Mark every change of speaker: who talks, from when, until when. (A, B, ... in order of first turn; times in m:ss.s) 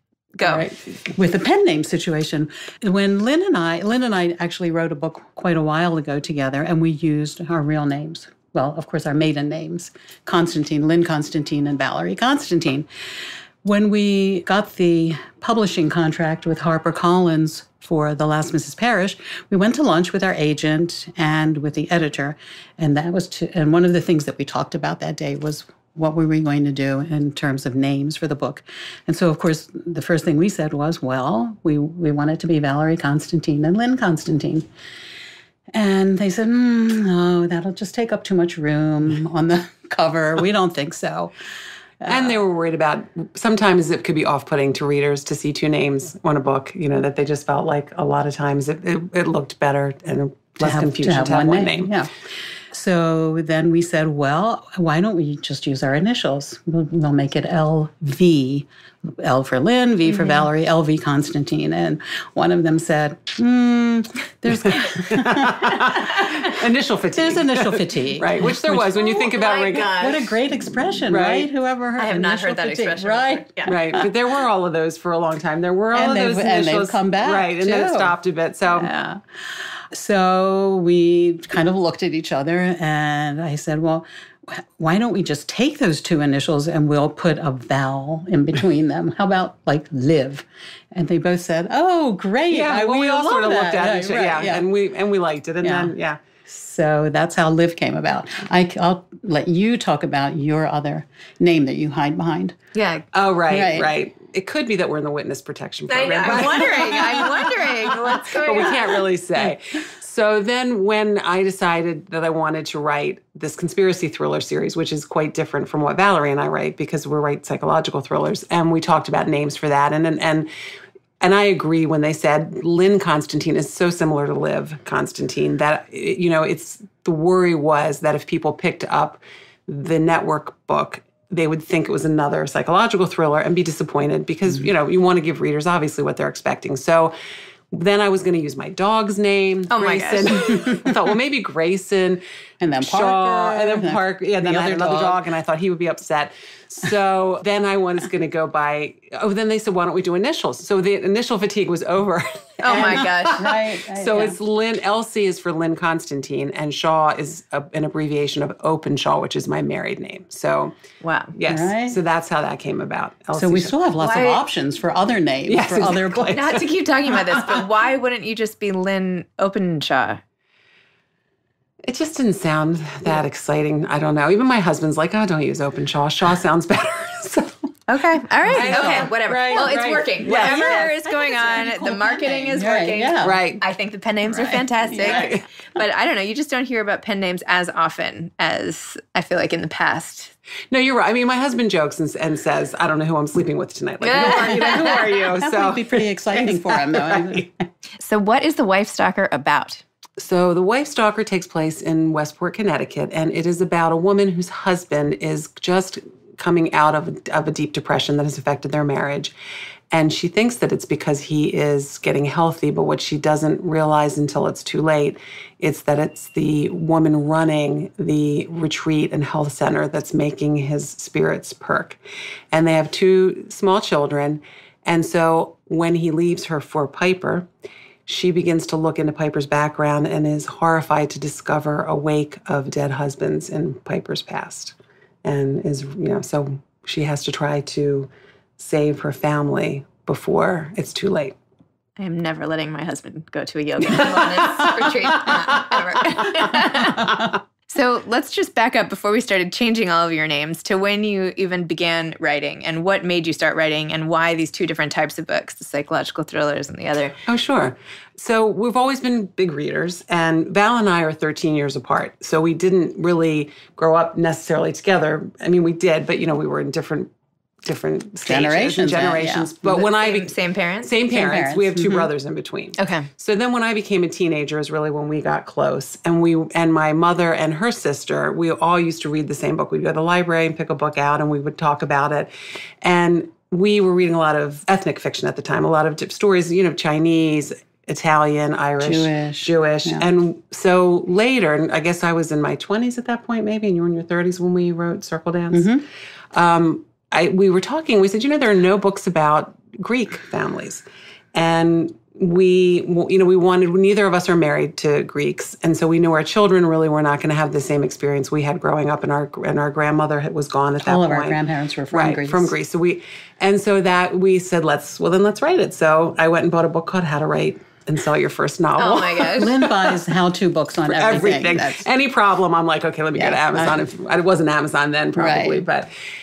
0:00.4-0:00.6 A
0:00.4-0:12.9 B
0:13.6-0:34.7 B
0:35.7-0:41.3 B
0:42.0-0:42.4 B
0:42.1-0:51.9 C
0:50.6-0:52.1 B
0:52.7-1:06.4 B
1:00.1-1:00.4 A
1:04.7-1:10.2 C
1:07.1-1:09.1 B
1:09.0-1:10.3 A
1:10.0-1:14.1 B
1:11.0-1:11.5 C
1:12.0-1:13.8 A
1:13.7-1:18.9 C
1:15.9-1:18.1 B
1:18.7-1:34.7 B
1:32.5-1:36.2 C
1:35.6-1:35.9 B
1:36.5-1:42.5 B
1:42.7-1:43.0 A
1:43.1-2:00.5 C
1:43.5-1:43.9 B
1:45.9-1:49.0 A
1:46.3-1:47.5 B
2:01.2-2:17.1 C
2:17.7-2:22.2 C
2:19.7-2:20.8 A
2:22.6-2:25.2 B
2:22.8-2:40.8 C
2:32.6-2:33.5 A
2:32.8-2:34.4 B
2:41.0-2:41.3 A
2:41.3-2:43.7 C
2:41.4-2:42.0 B
2:43.3-2:46.5 B
2:44.0-2:44.4 A
2:45.5-2:47.6 C
2:46.3-2:50.2 A
2:51.8-2:57.5 C
2:57.9-3:10.3 A
2:58.4-3:03.4 B
2:58.5-3:00.9 C
3:03.2-3:03.6 C
3:04.3-3:05.3 B
3:05.0-3:05.4 C
3:10.7-3:17.4 C
3:14.0-3:15.0 A
3:14.3-3:17.6 B
3:18.0-3:19.8 A
3:20.2-3:29.3 C
3:29.9-3:42.0 C
3:42.5-3:47.5 C
3:48.1-4:01.4 C
4:02.0-4:17.2 A
4:04.3-4:04.7 C
4:17.3-4:27.1 C
4:27.6-4:42.3 C
4:28.2-4:29.5 B
4:29.6-4:30.9 A
4:31.1-4:32.1 B
4:32.8-4:33.1 A
4:42.8-4:55.8 C
4:48.8-4:50.1 B
4:55.5-4:55.8 B
4:56.3-5:11.4 C
5:10.8-5:12.5 B
5:11.9-5:20.0 C
5:18.8-5:19.6 A
5:19.3-5:21.9 B
5:20.8-5:25.9 C
5:23.1-5:23.8 B
5:25.1-5:25.6 B